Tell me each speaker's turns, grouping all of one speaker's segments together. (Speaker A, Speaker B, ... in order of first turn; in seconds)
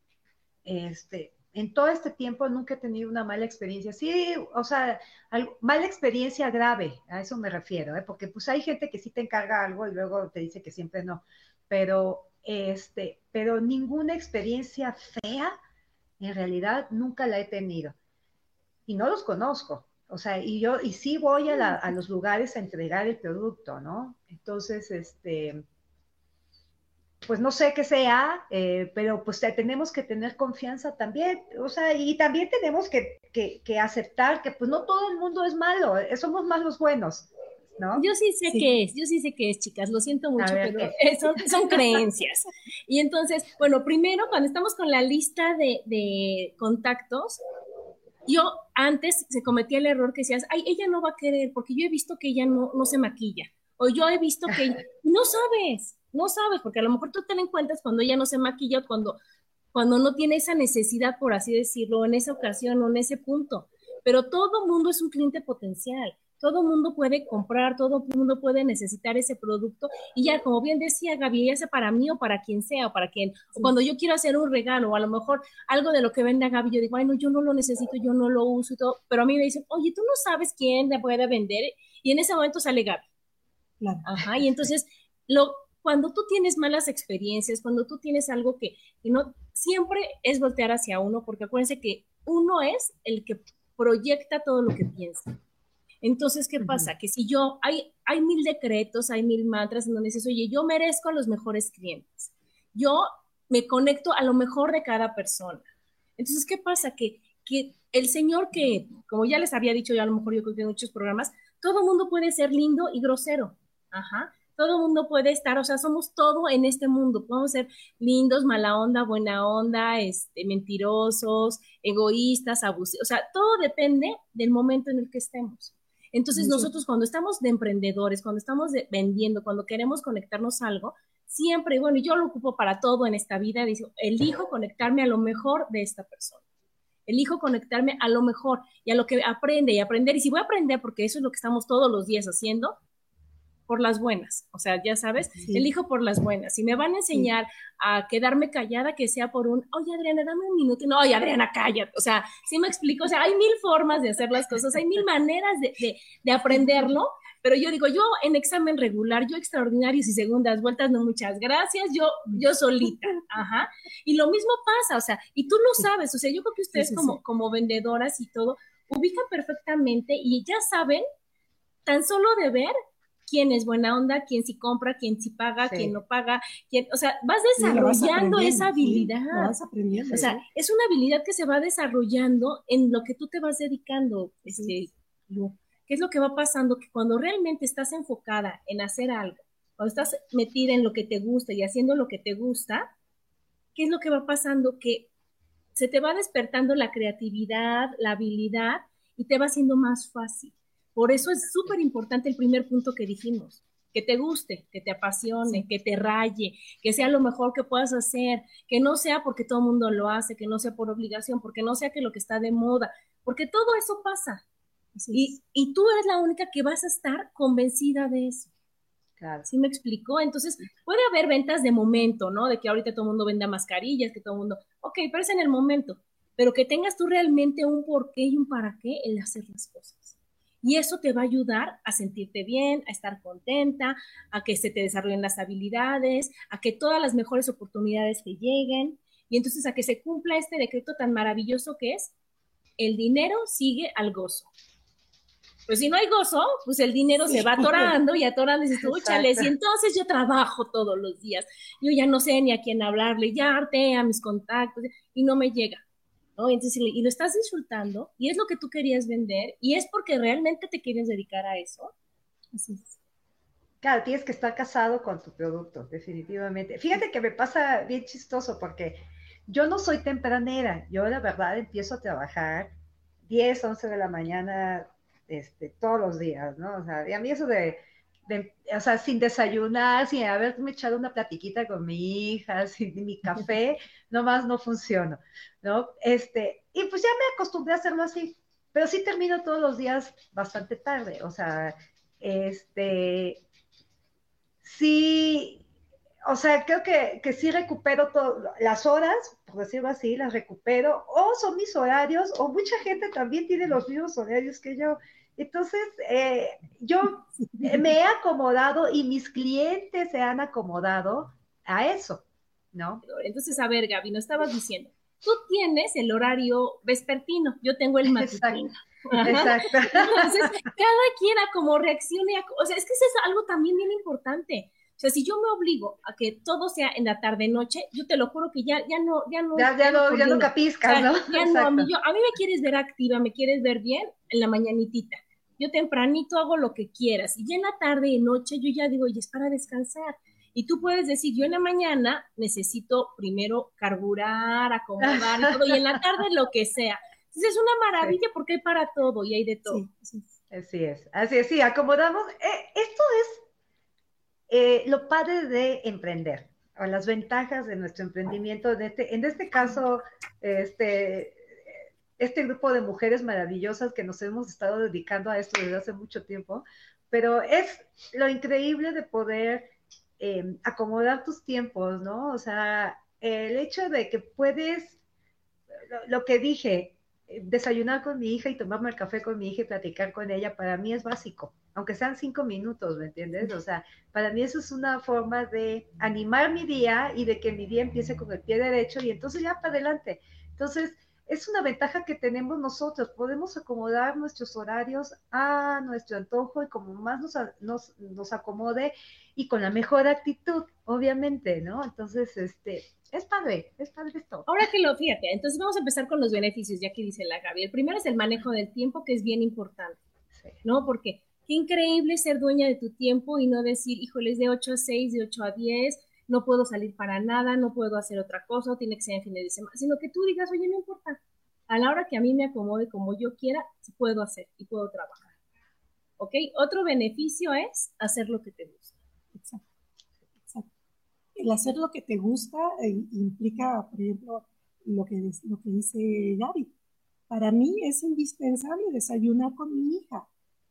Speaker A: 0.7-15.5, 16.2-17.9, 18.9-25.6, 27.2-38.1, 40.4-41.0, 175.6-175.9, 219.2-219.5, 247.3-247.9, 248.8-249.5, 263.8-272.7, 273.3-293.4, 294.6-295.6, 296.3-313.0, 318.1-318.6, 319.2-320.3, 329.6-331.9, 345.0-345.7, 350.5-353.4, 354.5-375.0, 375.9-404.5
Speaker B: 38.0-47.4, 48.3-59.2, 59.7-83.0, 84.0-95.3, 96.0-105.6, 106.2-136.4, 137.1-142.8, 143.7-171.1, 171.9-172.7, 173.3-179.6, 180.1-192.9, 193.8-195.1, 195.8-214.4, 215.1-218.5, 219.5-242.1, 242.8-244.5, 245.7-255.8, 256.4-261.9, 313.0-349.8, 404.5-410.0, 410.6-425.2, 426.2-428.9
Speaker C: 83.8-84.1, 126.4-126.7, 145.4-145.7, 156.5-156.9, 162.3-163.2, 166.8-167.2, 177.6-180.4, 184.5-184.8, 214.9-215.4, 262.5-262.9, 307.3-307.9, 349.7-350.3, 429.3-429.6, 430.4-430.7, 431.4-436.7, 437.3-440.3